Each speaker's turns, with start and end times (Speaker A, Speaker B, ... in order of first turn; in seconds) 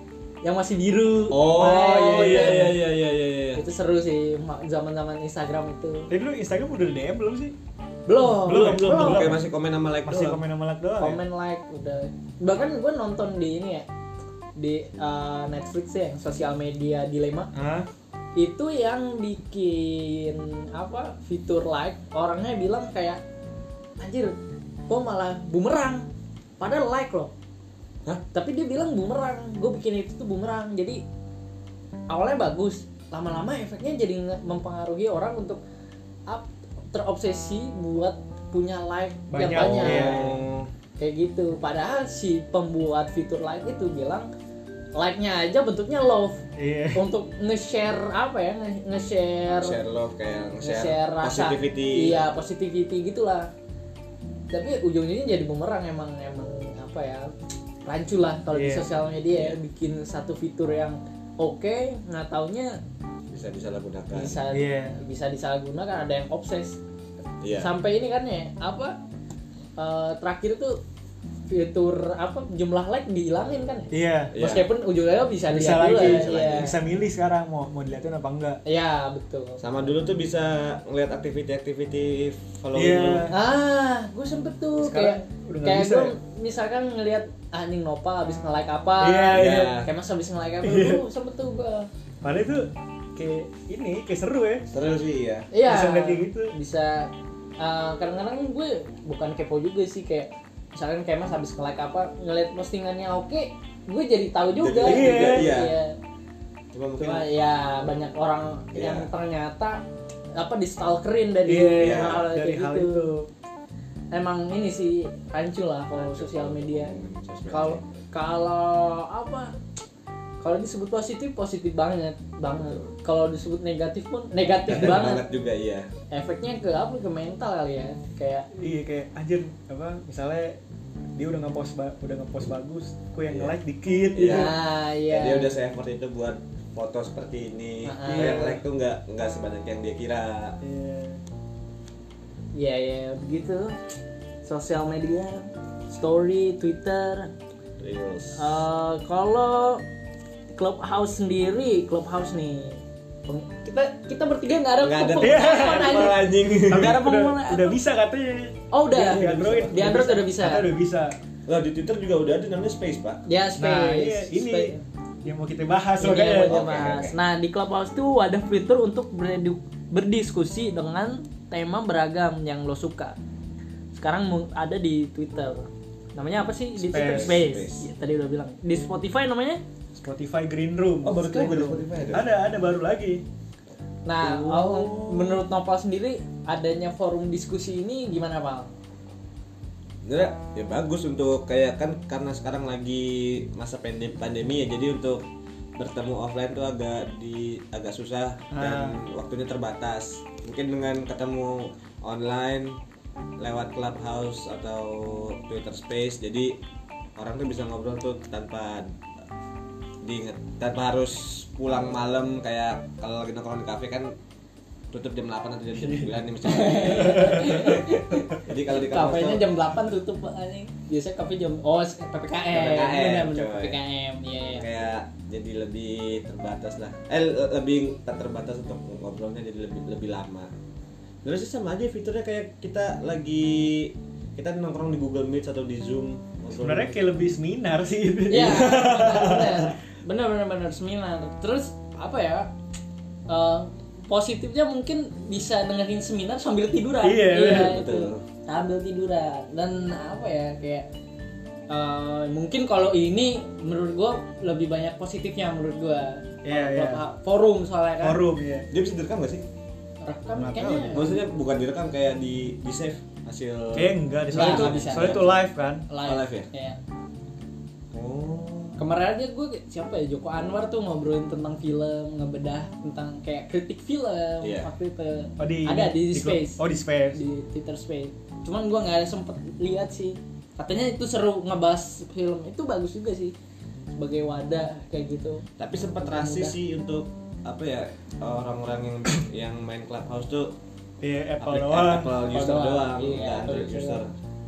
Speaker A: 0.4-2.8, 3.5-6.1, 8.1-9.4, 11.0-13.9, 14.6-17.5, 18.4-23.2, 24.0-24.3, 24.9-26.1, 26.6-27.3, 28.3-31.0, 32.1-35.6, 36.3-40.2, 41.0-44.3, 44.9-46.4, 46.9-49.8, 50.6-53.5, 54.5-57.3, 57.8-62.8, 64.1-66.8, 67.5-69.0, 69.8-70.8, 71.5-76.7, 78.6-79.6, 83.3-91.9, 95.5-106.0, 107.0-109.8, 110.3-113.0, 114.1-116.9, 117.5-119.5, 120.4-125.2, 126.1-128.5, 134.2-135.6, 137.8-138.6, 142.5-143.8, 144.4-147.3, 148.3-149.8, 150.5-157.8, 158.7-160.7, 163.2-164.8, 166.0-173.2, 173.9-179.6, 184.0-188.7, 216.4-224.7, 238.3-242.5, 243.3-250.9, 251.7-258.2, 260.0-261.2, 264.3-265.3, 265.9-266.8, 268.8-276.6, 277.1-283.3, 283.9-285.4, 285.9-286.6, 292.3-294.0
Speaker B: 1.3-3.6, 8.5-10.4, 39.5-40.7, 49.6-52.3, 59.3-59.6, 63.3-64.4, 67.4-67.7, 74.3-74.7, 75.9-76.7, 79.6-83.3, 89.3-89.9, 94.7-95.5, 104.5-105.7, 106.7-107.3, 108.7-109.1, 111.8-112.2, 115.9-117.9, 122.5-122.9, 124.7-125.9, 133.3-133.5, 134.1-140.6, 147.8-148.6, 154.5-157.0, 158.9-159.9, 161.5-163.2, 166.3-167.2, 176.8-177.9, 181.0-182.3, 184.2-185.4, 190.0-195.2, 195.8-202.8, 203.4-206.6, 207.2-208.9, 210.0-214.1, 214.9-219.6, 222.5-223.8, 224.5-230.5, 231.2-237.0, 247.4-248.2, 258.7-259.4, 260.9-265.4, 266.0-266.5, 267.9-268.8, 274.4-274.7, 285.6-290.6, 291.4-294.1
Speaker C: 1.9-2.8, 6.1-7.5, 8.2-9.4, 10.1-11.2, 17.5-17.9, 39.3-40.4, 46.5-47.0, 58.5-58.9, 64.5-65.0, 73.9-74.3, 75.5-78.6, 82.7-83.3, 84.8-86.1, 89.0-89.8, 90.6-91.0, 92.2-94.7, 95.6-96.5, 104.8-105.6, 111.5-113.3, 128.6-130.6, 131.2-134.5, 138.1-138.6, 140.6-141.2, 155.2-161.2, 163.6-166.6, 176.9-177.4, 179.9-183.2, 198.5-199.0, 215.8-216.2, 216.9-217.7, 236.5-239.7, 247.0-247.8, 256.4-257.0, 258.0-258.7, 260.3-261.1, 263.7-265.9, 275.4-277.2, 291.0-292.2